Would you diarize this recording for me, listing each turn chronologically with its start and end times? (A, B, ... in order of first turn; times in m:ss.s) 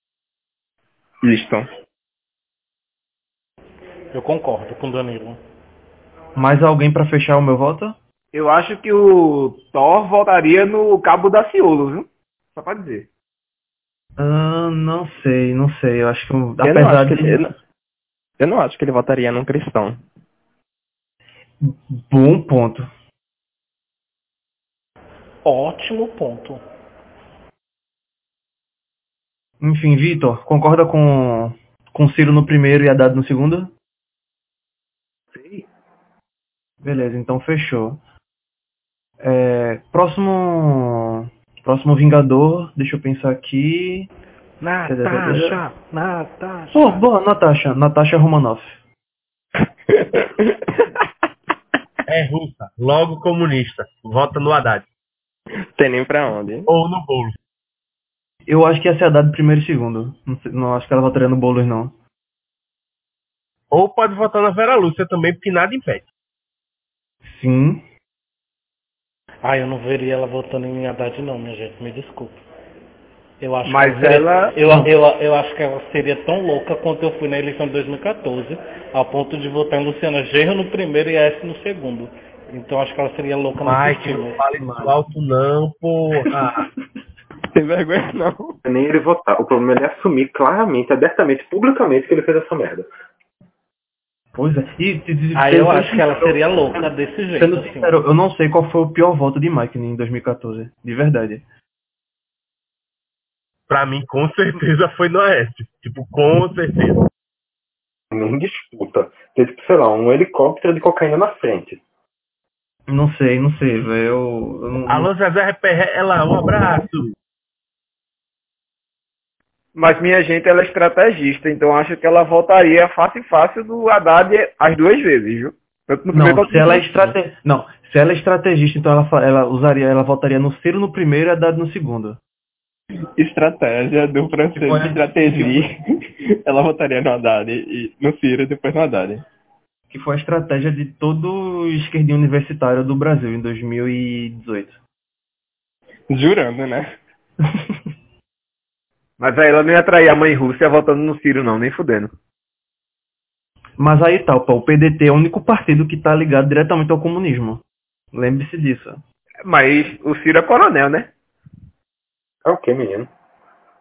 0:01.2-0:01.7 A
0:04.1-0:05.4 B
0:06.4-0:08.0 C
0:08.3-0:13.1 D
0:14.2-0:17.4 C
0:16.6-0:17.5 A
0:18.4-0:20.0 A
0:21.6-0:22.9 C
0:25.4-0:26.6 B
0:29.6-0:33.7 C
0:35.3-0:35.6 E
0:36.8-0:38.0 C
0:39.2-0:44.1 C
0:44.6-0:47.0 B
0:44.8-0:45.6 C
0:46.7-0:48.8 C
0:49.9-0:50.5 A
0:52.1-0:54.9 F
0:55.8-0:56.7 A
0:56.7-0:57.4 F
0:58.5-1:01.9 C
1:03.7-1:06.1 F
1:07.2-1:07.8 C
1:09.4-1:12.4 B
1:13.4-1:24.4 B
1:13.6-1:14.5 D
1:14.7-1:14.9 C
1:23.6-1:26.7 F
1:24.6-1:24.9 C
1:27.5-1:28.6 A
1:28.6-1:32.9 E
1:34.3-1:41.4 C
1:35.3-1:37.9 B
1:43.7-1:47.0 F
1:48.1-1:51.8 E
1:52.9-1:55.1 C
1:54.9-1:57.1 F
1:59.8-2:06.8 D
2:06.1-2:12.2 C
2:13.2-2:15.8 A
2:14.5-2:15.6 C
2:16.4-2:19.2 A
2:19.9-2:24.8 C
2:26.1-2:26.9 A
2:29.2-2:32.1 D
2:33.8-2:37.6 C
2:38.1-2:39.0 C
2:39.4-2:41.1 D
2:42.4-2:43.1 E